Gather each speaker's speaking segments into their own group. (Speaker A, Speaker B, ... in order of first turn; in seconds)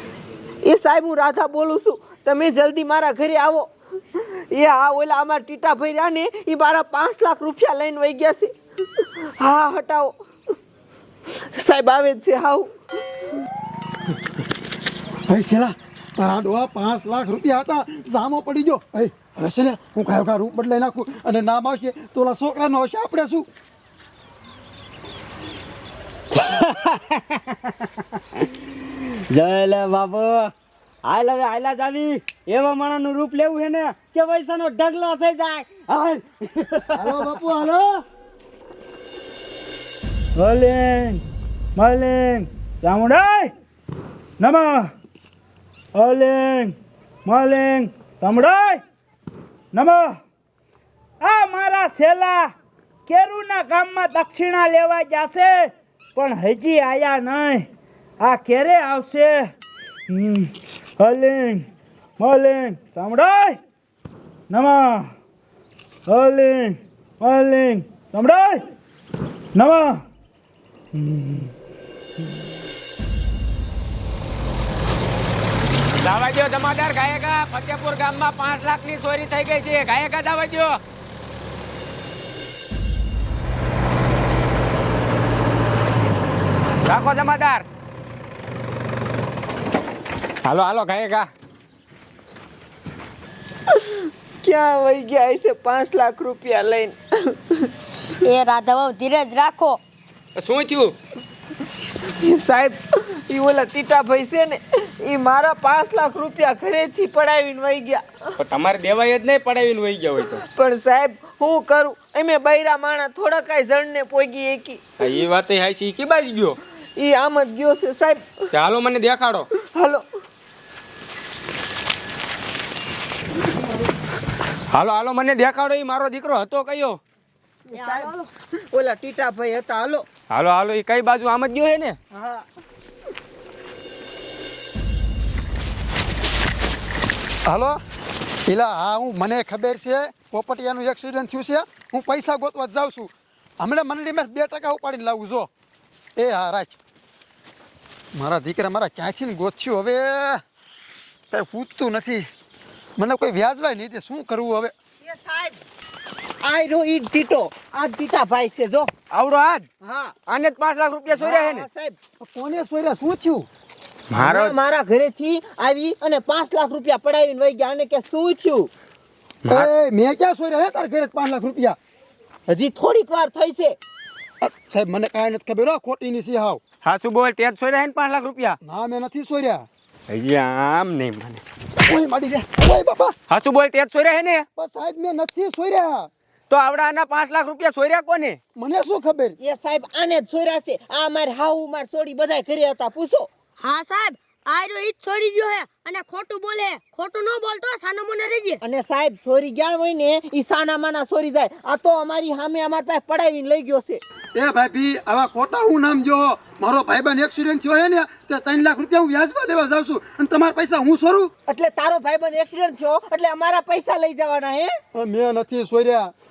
Speaker A: 0.6-8.5, 9.0-10.2, 11.6-12.7, 94.4-97.7, 102.2-108.0, 110.3-114.8, 117.0-118.3, 119.7-120.0, 127.7-128.1, 128.7-130.0, 132.1-132.4, 155.0-155.6, 156.4-158.9, 159.8-160.2, 161.1-162.0, 164.2-168.7, 172.5-173.8, 189.4-193.3, 198.6-204.0, 211.5-214.7
Speaker B: 15.3-23.5, 37.0-38.0, 137.5-137.8, 138.5-145.5, 146.2-146.8, 148.2-150.4, 151.3-152.3, 153.0-154.7, 162.2-163.5, 169.5-171.8, 174.4-176.6, 178.6-179.7, 181.8-183.2, 184.6-186.1, 188.6-189.4, 204.3-211.3, 214.9-216.1
Speaker C: 26.3-27.7, 29.3-30.5, 31.0-37.3
Speaker D: 40.4-41.2, 41.8-43.5, 44.4-44.9, 46.0-46.7, 47.3-48.8, 49.7-50.2, 51.2-52.5, 53.1-57.7, 58.2-59.5, 60.1-61.7, 62.2-63.6, 64.5-65.1, 66.1-68.6, 69.5-70.0, 70.9-71.5
Speaker E: 76.0-80.8, 86.8-87.7, 90.5-91.3, 100.4-101.0, 108.4-110.4, 115.0-116.6, 118.5-119.5, 124.7-127.0, 130.3-132.0, 159.1-159.7, 160.3-161.7, 164.1-164.6, 169.4-169.7, 176.8-178.6, 180.1-181.4, 183.3-184.4, 186.5-188.4
Speaker F: 98.2-99.8, 127.7-128.3, 193.6-198.6